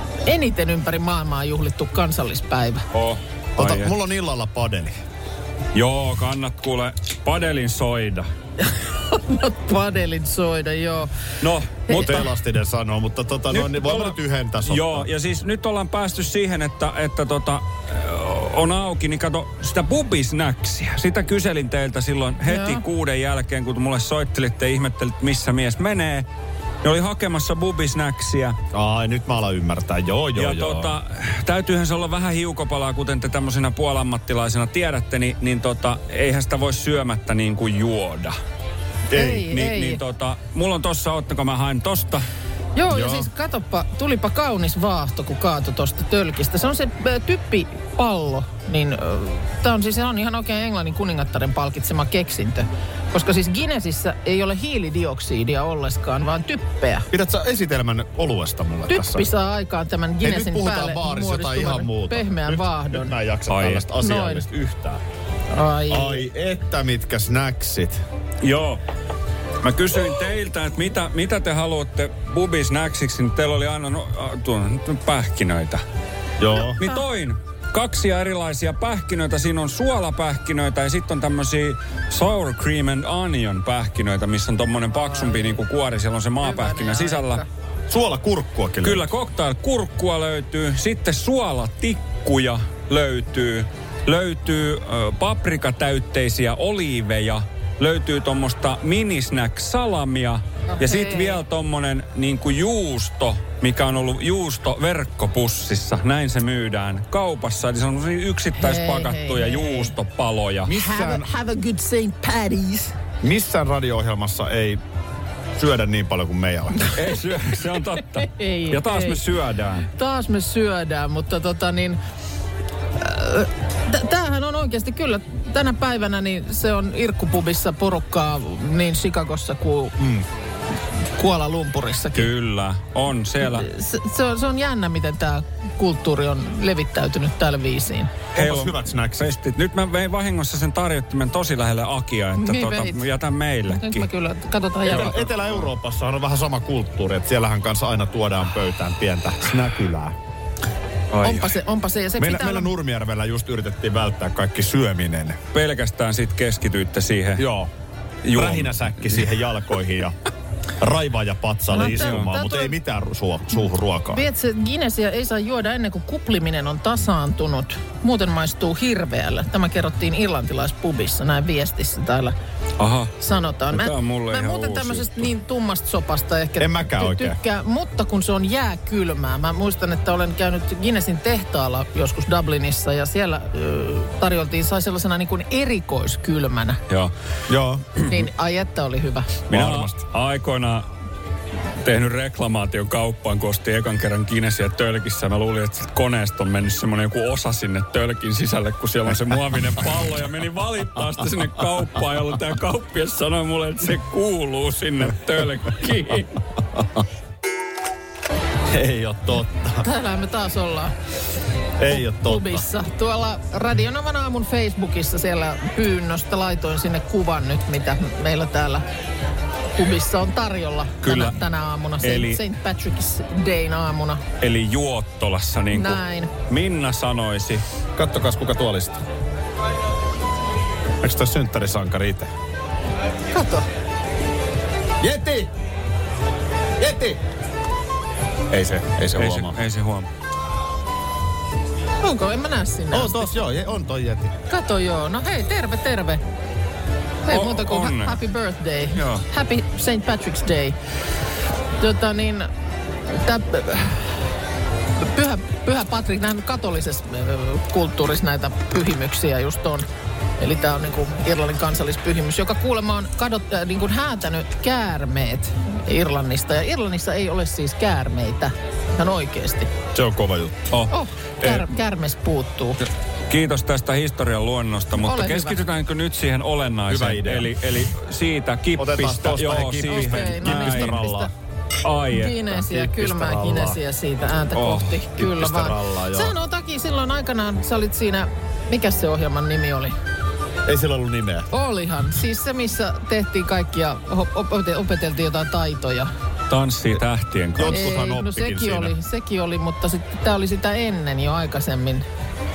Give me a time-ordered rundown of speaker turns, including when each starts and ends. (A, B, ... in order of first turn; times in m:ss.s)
0:00.2-0:02.8 A
0:02.9-0:03.9 B
0:03.6-0:04.9 C
0:05.7-0:08.3 B
0:08.6-0:11.1 A
0:11.4-0:12.2 B
0:11.9-0:12.3 A
0:11.9-0:15.1 C
0:13.5-0:26.3 B
0:22.4-0:22.8 A
0:26.8-0:28.6 B
0:28.7-0:30.9 C
0:30.3-0:38.4 B
0:39.1-0:39.4 C
0:39.1-0:40.0 A
0:39.4-0:42.2 B
0:42.8-0:57.1 A
0:42.9-0:43.3 C
0:57.1-0:59.3 C
0:58.9-1:03.1 A
1:00.2-1:05.0 C
1:03.5-1:03.9 B
1:04.0-1:04.4 A
1:05.5-1:06.2 A
1:05.9-1:08.0 C
1:08.4-1:08.8 B
1:09.6-1:15.8 B
1:16.4-1:16.8 C
1:16.8-1:27.4 B
1:24.9-1:25.6 A
1:26.4-1:27.4 A
1:27.9-1:29.1 C
1:28.8-1:50.7 B
1:40.8-1:41.4 A
1:48.6-1:49.9 A
1:50.7-1:51.3 C
1:50.7-1:53.0 A
1:53.2-1:54.8 C
1:55.6-1:56.9 C
1:56.9-1:59.9 B
1:58.2-1:59.2 A
1:59.9-2:02.0 A
2:03.0-2:09.9 A
2:10.0-2:10.2 C
2:11.1-2:12.3 A
2:12.1-2:13.7 B
2:13.4-2:18.2 A
2:18.3-2:24.1 B
2:18.3-2:19.3 C
2:22.4-2:23.0 A
2:23.7-2:25.2 A
2:24.9-2:25.7 B
2:24.9-2:30.2 C
2:31.1-2:31.5 B
2:31.2-2:32.7 A
2:32.2-2:35.4 C
2:35.5-2:37.4 B
2:37.4-2:37.7 C
2:38.2-2:39.1 B
2:38.3-2:40.2 C
2:40.8-2:44.2 C
2:41.7-2:42.7 A
2:41.8-2:42.3 B
2:44.1-2:52.3 A
2:52.8-2:53.1 B
2:53.2-3:06.8 A
2:53.7-2:55.3 B
2:56.6-2:57.4 C
3:07.5-3:08.0 C
3:08.1-3:09.4 A
3:09.5-3:10.9 B
3:09.5-3:10.0 C
3:11.8-3:26.4 B
3:28.7-3:29.8 C
3:29.8-3:30.9 A
3:31.8-3:32.6 C
3:31.9-3:38.8 A
3:39.7-3:44.2 A
3:41.0-3:41.4 B
3:42.0-3:42.4 B
3:44.4-3:47.6 B
3:45.7-3:46.3 A
3:48.0-3:49.0 C
3:51.0-3:52.3 C
3:53.3-3:53.6 A
3:55.0-3:55.5 C
3:56.8-3:57.2 C
3:58.5-3:59.6 C
3:59.1-4:00.1 B
4:02.0-4:03.4 A
4:02.9-4:04.3 C
4:04.5-4:06.2 A
4:07.2-4:10.8 A
4:07.3-4:08.2 B
4:08.9-4:09.2 B
4:11.8-4:12.5 A
4:13.0-4:14.2 A
4:15.0-4:19.8 A
4:20.4-4:29.7 A
4:29.9-4:30.7 C
4:30.9-4:32.8 A
4:33.3-4:41.0 B
4:34.9-4:35.6 A
4:36.9-4:37.5 C
4:38.8-4:41.3 C
4:39.8-4:41.3 A
4:41.8-4:42.4 B
4:42.1-4:49.9 A
4:42.5-4:43.8 C
4:44.5-4:45.0 B
4:45.2-4:46.3 C
4:50.6-4:51.5 C
4:51.5-4:56.1 A
4:56.5-4:57.8 B
4:57.6-4:59.0 C
4:57.7-5:02.0 A